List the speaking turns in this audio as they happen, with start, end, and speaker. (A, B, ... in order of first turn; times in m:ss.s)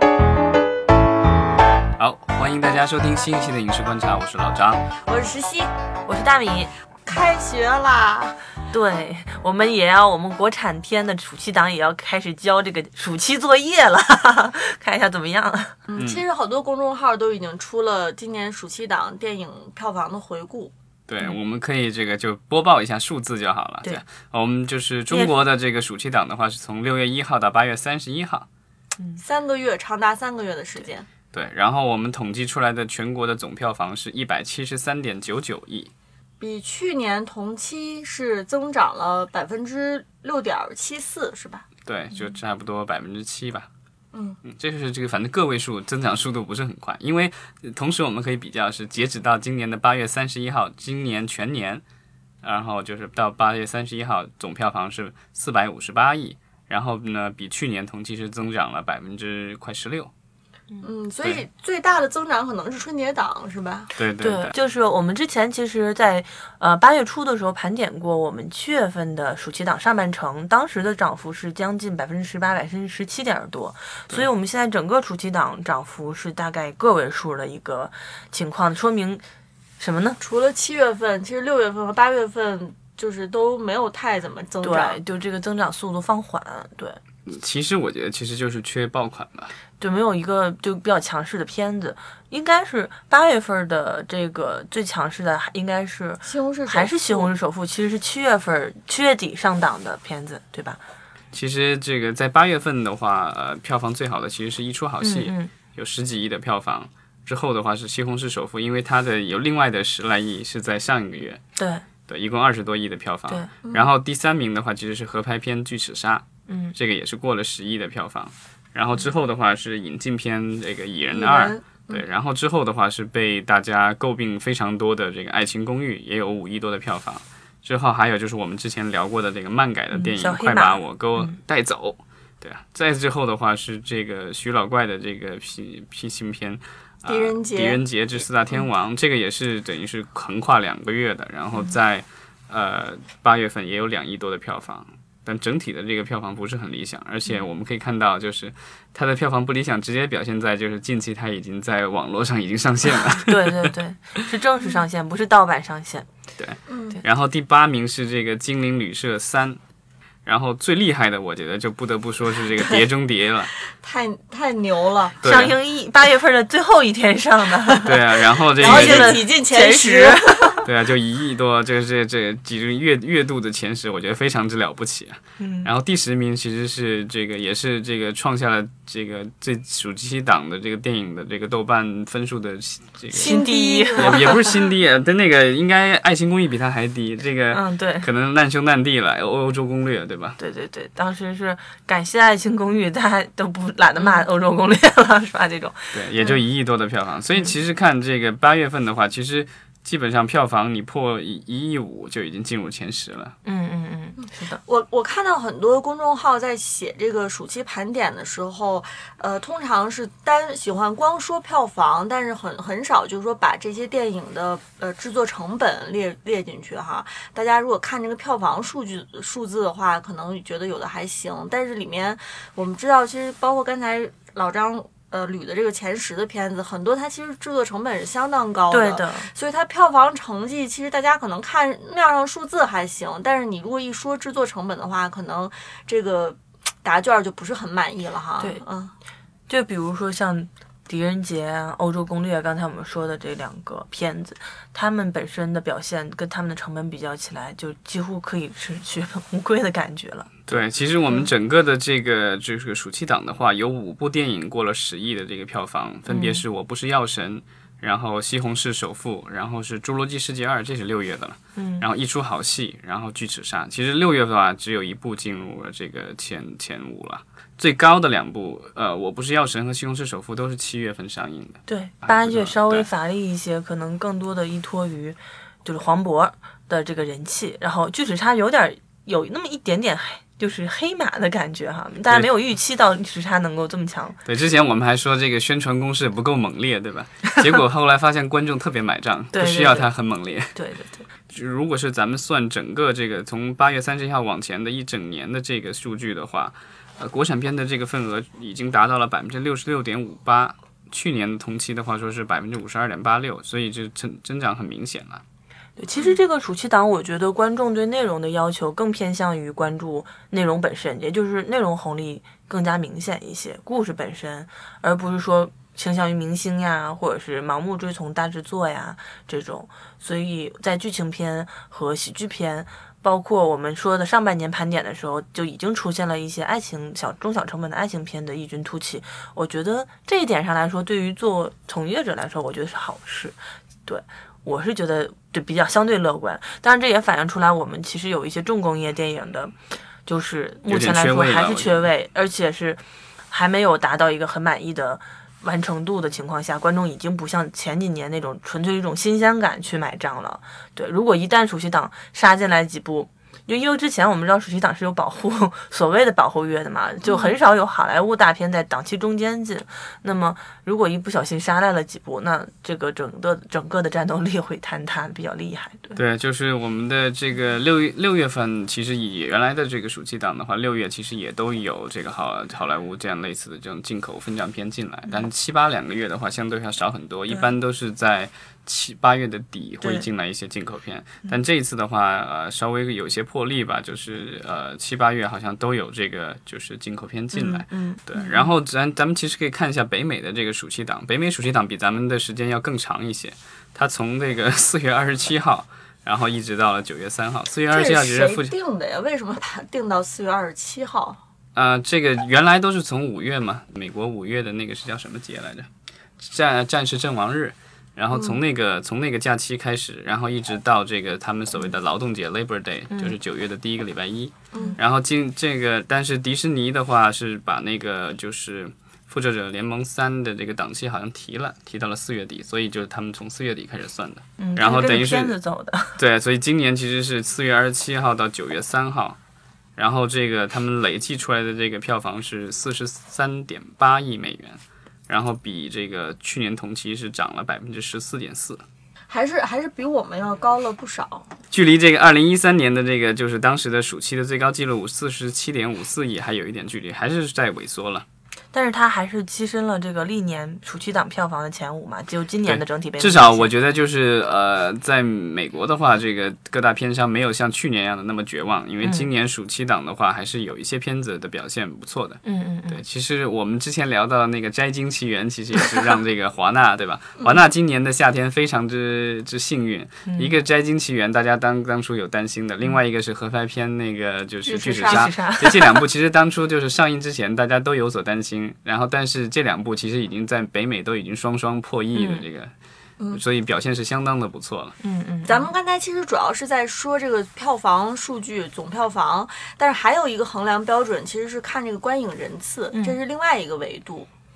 0:02.0-0:04.8 A
0:05.0-0:05.7 B
0:06.1-0:06.7 C
0:07.0-0:08.4 B
0:08.7-0:15.8 C
0:15.9-0:20.7 B
0:16.0-0:16.2 A
0:21.1-0:28.5 A
0:29.2-0:31.1 B
0:31.3-0:35.9 A
0:36.4-0:41.6 B
0:41.8-0:43.7 A
0:44.1-0:44.4 B
0:44.4-0:51.8 A
0:52.4-1:00.1 A
1:00.8-1:03.9 B
1:04.0-1:04.5 A
1:04.2-1:19.2 C
1:19.8-1:20.2 C
1:20.2-1:25.0 B
1:24.6-1:27.0 C
1:27.2-1:29.5 A
1:29.8-1:40.8 C
1:36.2-1:37.3 B
1:41.3-1:51.4 A
1:45.0-1:45.5 C
1:51.6-1:51.8 C
1:52.1-2:33.7 A
1:56.5-1:56.7 C
2:01.1-2:02.0 B
2:09.9-2:11.3 C
2:17.0-2:17.8 B
2:33.1-2:36.1 C
2:36.4-2:39.6 A
2:36.7-2:37.0 B
2:40.2-2:43.5 A
2:43.7-2:45.2 B
2:45.2-2:45.5 A
2:45.2-2:48.0 C
2:47.6-2:47.9 B
2:47.8-2:49.2 A
2:48.6-2:50.6 B
2:48.6-2:50.6 C
2:50.6-3:03.4 A
2:55.4-2:55.7 C
3:03.1-3:04.4 C
3:03.1-3:04.4 B
3:03.9-3:10.4 A
3:07.5-3:08.1 C
3:10.4-3:16.0 C
3:14.0-3:14.2 B
3:15.9-3:23.3 A
3:23.4-3:24.6 C
3:24.2-3:58.9 B
3:48.7-3:49.3 C
3:59.5-4:11.3 C
4:10.5-4:32.8 A
4:16.1-4:16.4 C
4:21.6-4:21.8 C
4:31.7-4:44.2 C
4:44.2-4:50.6 A
4:49.3-4:49.9 C
4:50.5-4:51.1 C
4:51.3-5:05.2 A
5:05.8-5:39.5 C
5:40.0-6:06.0 C
5:40.7-5:41.8 A
5:57.0-5:57.3 B
6:05.9-6:38.5 A
6:19.8-6:20.1 C
6:27.3-6:28.5 C
6:37.7-6:41.2 B
6:41.5-6:45.7 A
6:46.2-7:05.3 A
7:04.4-7:06.0 C
7:06.0-7:09.2 A
7:09.8-7:18.6 A
7:19.1-7:21.3 B
7:21.5-7:28.0 A
7:28.5-7:33.5 C
7:32.4-8:02.5 A
7:38.8-7:39.1 C
7:42.2-7:42.8 C
7:50.0-7:50.4 C
7:54.4-7:55.1 B
7:54.8-7:55.8 C
8:01.9-8:02.2 C
8:03.1-8:04.7 A
8:04.8-8:05.5 C
8:05.2-8:14.1 B
8:12.7-8:13.0 C